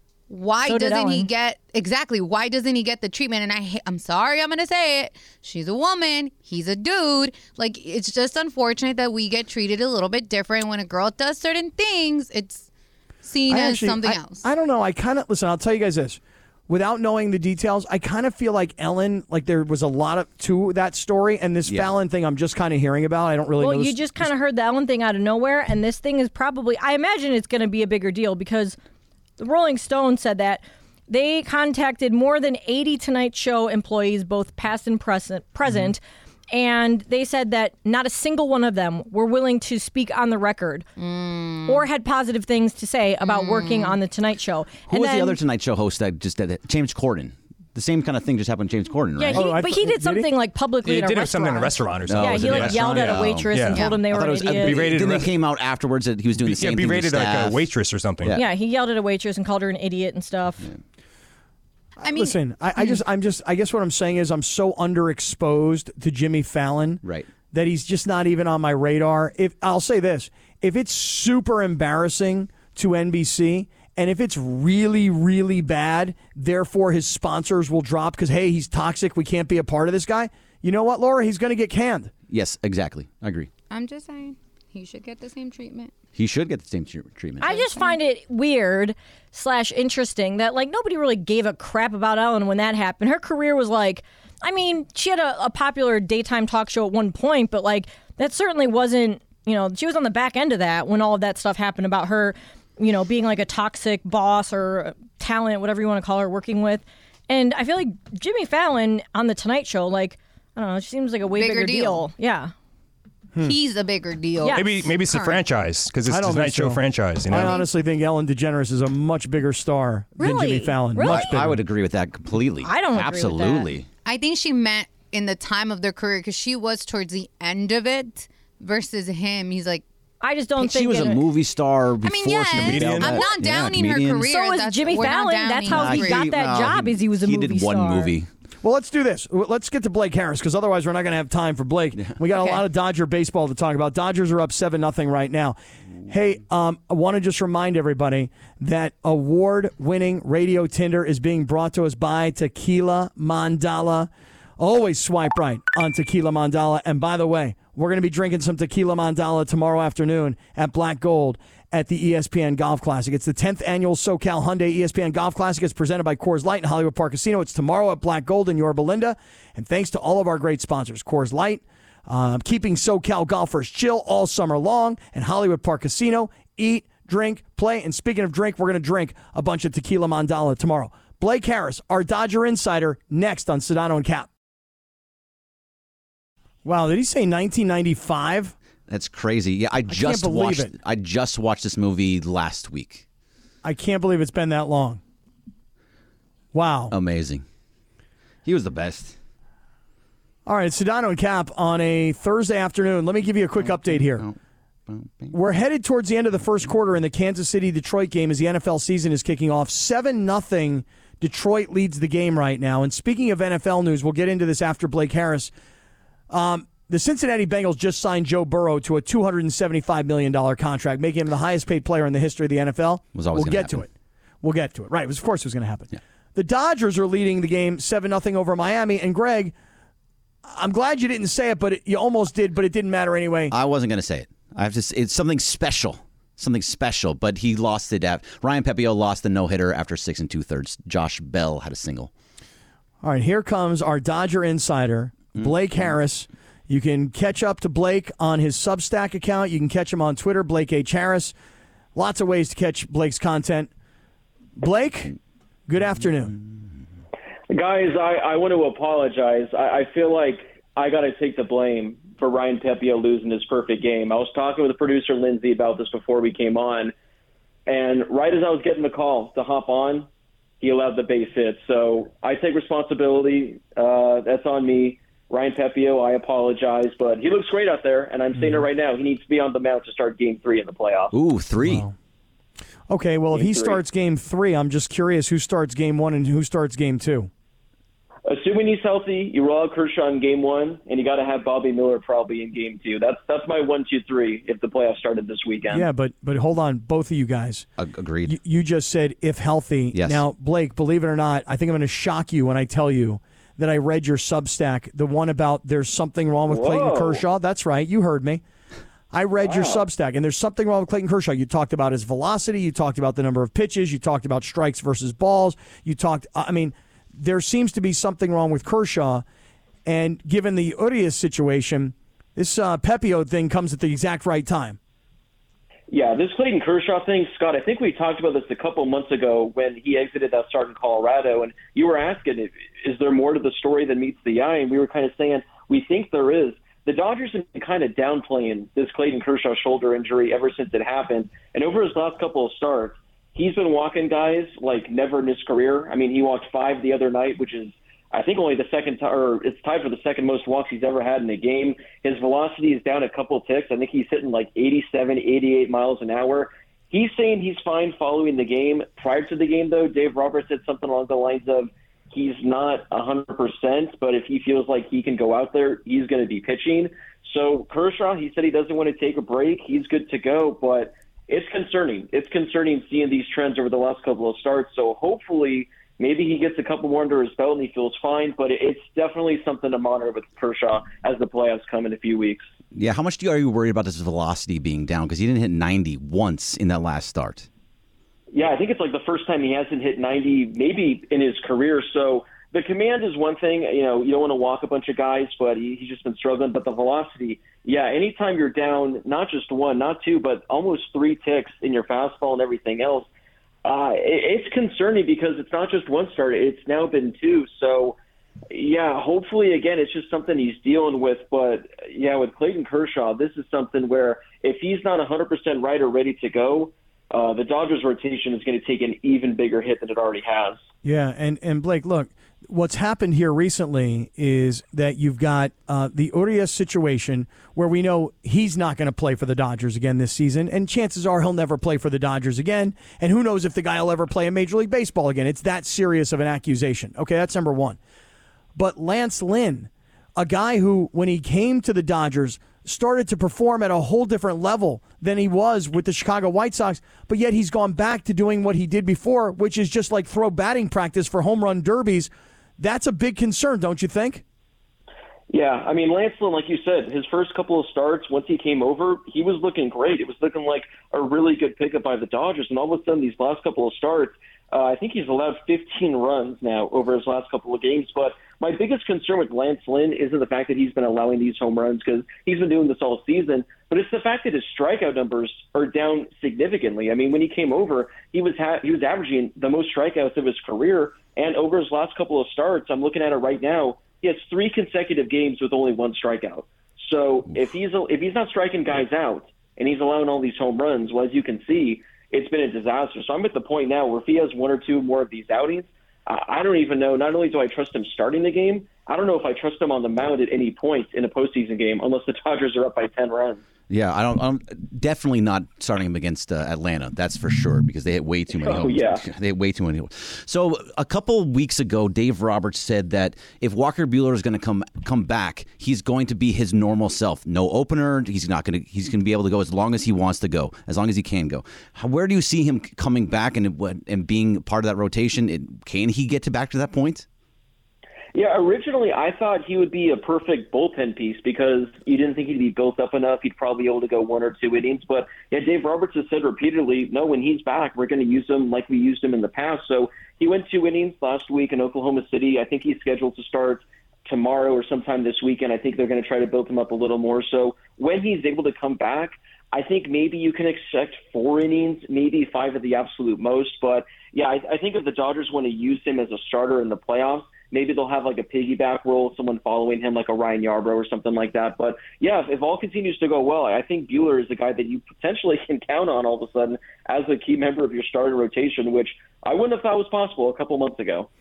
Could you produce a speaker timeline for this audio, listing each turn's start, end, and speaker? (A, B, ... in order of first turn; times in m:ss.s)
0:00.3-0:12.7 A
0:00.6-0:01.3 B
0:13.2-0:14.4 A
0:13.5-0:24.3 C
0:21.6-0:21.9 D
0:23.6-0:28.8 B
0:29.4-0:40.9 B
0:41.0-0:41.8 A
0:41.6-0:45.4 B
0:43.2-0:44.0 A
0:44.9-0:49.5 D
0:49.2-0:54.9 B
0:49.3-0:50.3 C
0:50.8-0:53.8 E
0:52.1-0:57.6 D
0:53.7-0:54.0 A
0:54.5-0:55.4 E
0:56.4-0:58.4 E
0:58.3-1:00.6 B
1:02.0-1:03.0 A
1:02.0-1:22.1 C
1:07.0-1:07.3 D
1:22.3-1:23.5 D
1:23.7-1:25.9 A
1:26.1-1:27.6 D
1:27.4-1:52.5 B
1:27.7-1:27.9 A
1:51.3-1:52.1 A
1:53.4-1:54.6 A
1:54.4-1:55.4 B
1:54.5-1:57.6 E
1:56.1-2:01.6 C
2:00.2-2:01.4 B
2:01.0-2:03.9 D
2:02.6-2:03.7 B
2:04.0-2:09.8 A
2:10.2-2:11.2 B
2:10.6-2:14.3 D
2:12.0-2:16.3 A
2:12.5-2:13.3 E
2:14.3-2:18.1 B
2:15.6-2:18.3 D
2:18.6-3:04.3 C
2:22.3-2:22.6 A
3:06.6-3:08.5 C
3:08.9-3:13.0 D
3:09.9-3:10.7 C
3:13.6-3:15.0 C
3:16.5-3:16.9 C
3:16.9-3:17.4 D
3:18.4-3:19.1 D
3:20.4-3:24.2 C
3:23.6-3:24.4 D
3:24.9-3:25.3 D
3:25.3-3:35.5 C
3:36.3-3:43.9 C
3:43.1-3:43.8 D
3:44.4-3:49.5 C
3:50.4-3:53.5 C
3:53.5-4:02.1 D
4:03.0-4:11.3 C
4:05.4-4:05.9 D
4:11.9-4:13.7 C
4:14.6-4:15.1 C
4:15.7-4:16.3 C
4:17.5-4:26.9 F
4:27.7-4:30.1 F
4:30.6-4:41.1 F
4:38.4-4:38.6 C
4:41.1-4:41.8 D
4:41.6-4:41.9 C
4:42.9-4:47.3 C
4:43.3-4:43.8 F
4:48.2-4:55.9 F
4:55.7-4:57.6 C
4:57.8-4:58.3 D
4:58.2-5:08.4 C
4:59.9-5:00.2 D
5:06.5-5:07.2 F
5:09.1-5:19.2 C
5:09.4-5:09.8 F
5:19.8-5:24.8 C
5:25.9-6:22.5 F
6:22.7-6:27.5 D
6:28.3-6:43.1 F
6:43.6-6:48.0 F
6:48.5-7:00.6 F
7:00.8-7:17.8 C
7:18.6-7:34.2 C
7:35.3-8:23.4 F
8:23.7-8:47.0 D
8:28.3-8:29.0 F
8:48.1-9:31.1 F